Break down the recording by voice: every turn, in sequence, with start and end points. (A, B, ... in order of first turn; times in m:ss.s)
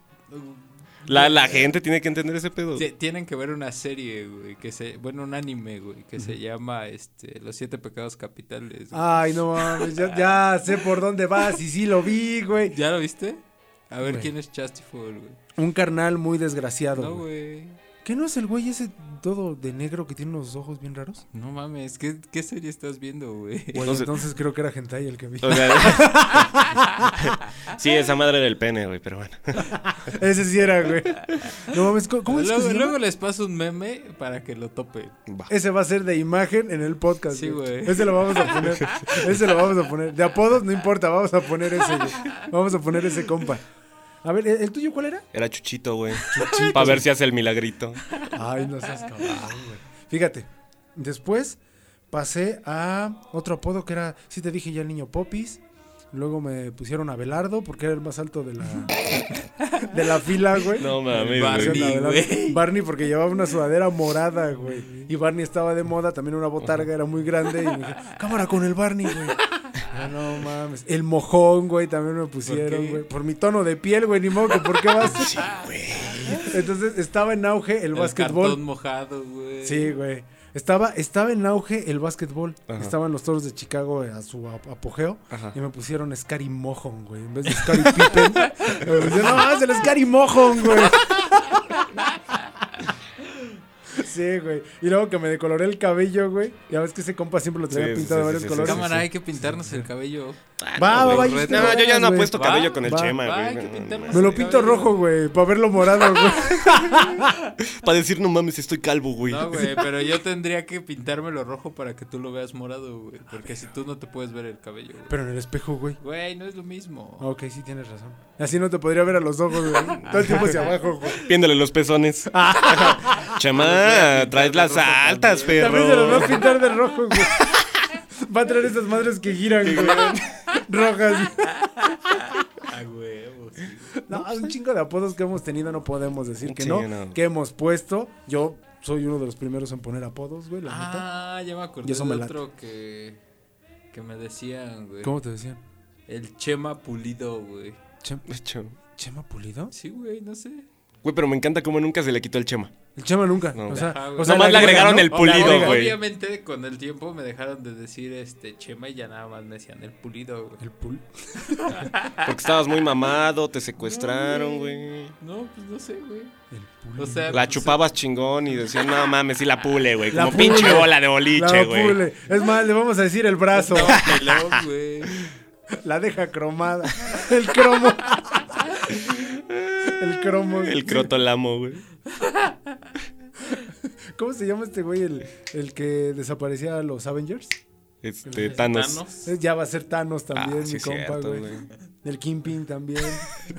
0:00.3-0:01.7 A
0:01.1-0:02.9 B
0:02.8-0:10.2 A
0:08.9-0:12.8 C
0:12.7-0:15.4 A
0:14.0-0:14.3 C
0:15.6-0:17.2 C
0:17.0-0:17.8 A
0:18.0-0:21.2 C
0:21.3-0:23.9 A
0:23.7-0:27.1 C
0:23.8-0:24.1 B
0:25.4-0:26.5 B
0:27.1-0:29.8 B
0:29.7-0:33.0 C
0:32.3-0:35.2 A
0:35.5-0:43.6 C
0:37.3-0:39.2 A
0:44.2-0:45.3 C
0:45.3-0:48.0 B
0:46.3-0:47.1 C
0:48.3-0:51.6 C
0:52.1-0:55.6 C
0:56.1-0:59.1 C
0:59.8-1:15.6 C
1:00.7-1:02.0 B
1:01.1-1:02.6 A
1:12.4-1:13.0 A
1:15.0-1:16.5 B
1:16.2-1:16.4 A
1:16.3-1:18.6 C
1:17.9-1:20.0 A
1:19.6-1:31.8 C
1:22.7-1:22.9 B
1:25.3-1:25.6 B
1:28.9-1:29.2 B
1:33.9-1:39.9 C
1:37.7-1:39.0 B
1:38.6-1:45.0 A
1:40.6-1:44.4 B
1:40.8-1:43.2 C
1:44.1-1:47.3 C
1:46.5-1:47.0 B
1:47.6-1:49.9 B
1:49.3-1:55.2 A
1:55.1-1:56.0 C
1:56.0-1:57.3 A
1:57.2-2:01.3 C
2:00.0-2:06.6 B
2:00.3-2:00.6 A
2:02.3-2:03.4 C
2:03.2-2:06.4 A
2:05.5-2:07.5 C
2:07.2-2:07.7 B
2:08.2-2:11.7 C
2:09.6-2:10.4 B
2:11.7-2:14.1 A
2:14.0-2:21.1 C
2:16.4-2:17.2 B
2:20.6-2:23.2 A
2:21.8-2:22.4 C
2:23.9-2:25.2 A
2:25.0-2:25.6 C
2:26.1-2:27.8 A
2:28.3-2:28.8 B
2:29.0-2:29.7 C
2:29.7-2:30.7 A
2:31.0-2:32.7 B
2:33.0-2:35.9 C
2:33.5-2:36.0 B
2:33.7-2:40.6 A
2:40.6-2:41.9 C
2:41.6-2:42.2 A
2:42.2-2:45.1 B
2:43.8-2:46.4 A
2:46.5-2:47.4 C
2:47.0-2:47.8 A
2:47.3-2:52.0 B
2:50.1-2:54.2 C
2:53.5-2:55.3 A
2:53.9-2:54.6 B
2:55.7-2:58.7 C
2:58.9-3:01.8 B
2:59.8-3:01.1 C
3:02.2-3:02.6 A
3:03.6-3:07.6 C
3:08.0-3:09.0 B
3:08.3-3:09.3 A
3:09.2-3:13.3 C
3:10.3-3:11.7 B